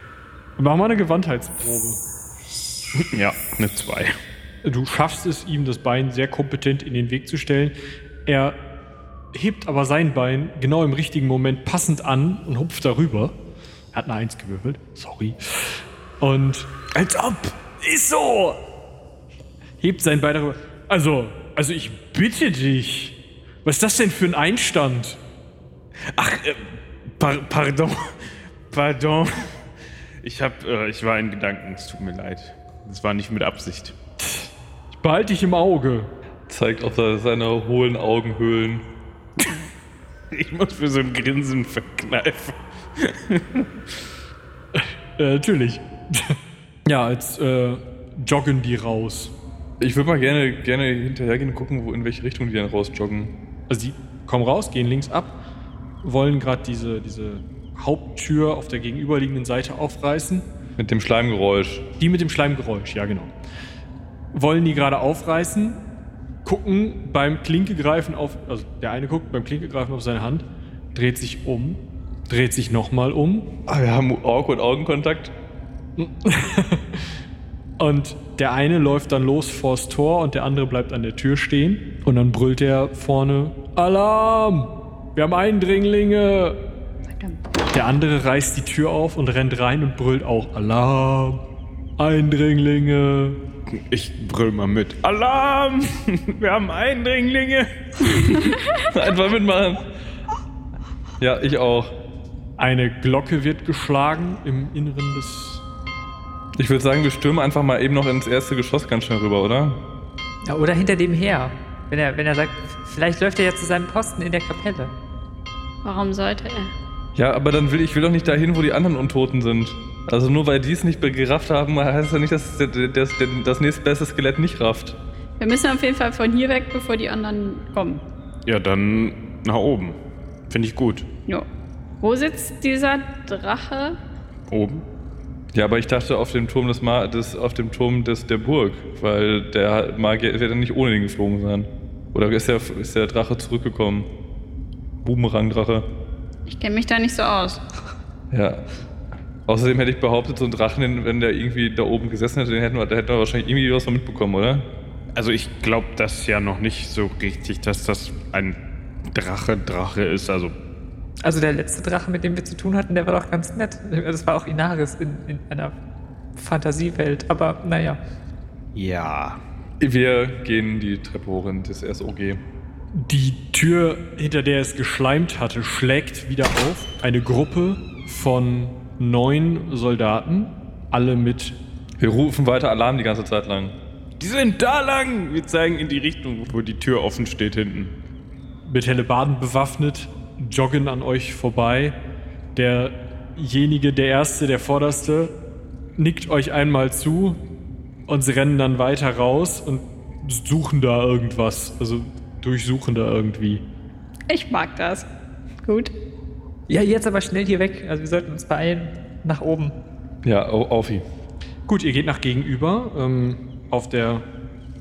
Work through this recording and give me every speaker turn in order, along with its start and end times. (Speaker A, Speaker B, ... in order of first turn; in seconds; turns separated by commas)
Speaker A: 0.6-2.0, Speaker B: 3.0-4.1, Speaker A: 4.6-7.7, Speaker A: 8.2-8.6, Speaker A: 9.3-13.4, Speaker A: 13.9-18.6, Speaker A: 19.8-25.2, Speaker B: 26.1-29.5, Speaker B: 30.2-33.9, Speaker A: 34.2-36.1, Speaker C: 36.5-38.9, Speaker B: 40.3-43.7, Speaker A: 44.7-49.3, Speaker C: 49.8-53.3, Speaker A: 53.7-55.4, Speaker A: 56.0-60.5, Speaker C: 60.8-61.9, Speaker A: 62.0-63.3, Speaker A: 64.3-65.8, Speaker A: 66.4-73.5, Speaker C: 73.7-75.3, Speaker A: 76.0-77.1, Speaker A: 77.8-86.6, Speaker A: 87.7-91.4, Speaker A: 92.0-93.4, Speaker B: 93.7-97.7, Speaker C: 98.9-99.8, Speaker C: 101.2-101.9, Speaker A: 102.6-105.6, Speaker C: 106.5-109.8, Speaker D: 110.4-114.9, Speaker E: 115.8-116.7, Speaker C: 117.1-125.0, Speaker E: 125.4-128.0, Speaker B: 128.4-130.0, Speaker B: 130.5-131.1, Speaker E: 132.0-134.0, Speaker B: 134.5-134.8, Speaker C: 135.5-144.1, Speaker C: 145.0-145.9, Speaker E: 146.5-147.6, Speaker C: 148.3-148.6, Speaker C: 149.5-154.7, Speaker B: 155.1-158.6, Speaker B: 159.1-160.5, Speaker D: 161.2-165.8, Speaker D: 166.3-168.0, Speaker B: 168.7-169.4, Speaker C: 169.8-172.4, Speaker A: 172.9-181.6, Speaker C: 182.0-183.7, Speaker B: 184.2-187.9, Speaker A: 188.6-192.0, Speaker A: 192.5-195.3, Speaker A: 195.9-197.4, Speaker A: 198.1-203.6, Speaker E: 204.3-205.1, Speaker E: 205.6-205.9, Speaker D: 206.7-209.7, Speaker C: 210.2-211.0, Speaker A: 211.7-214.2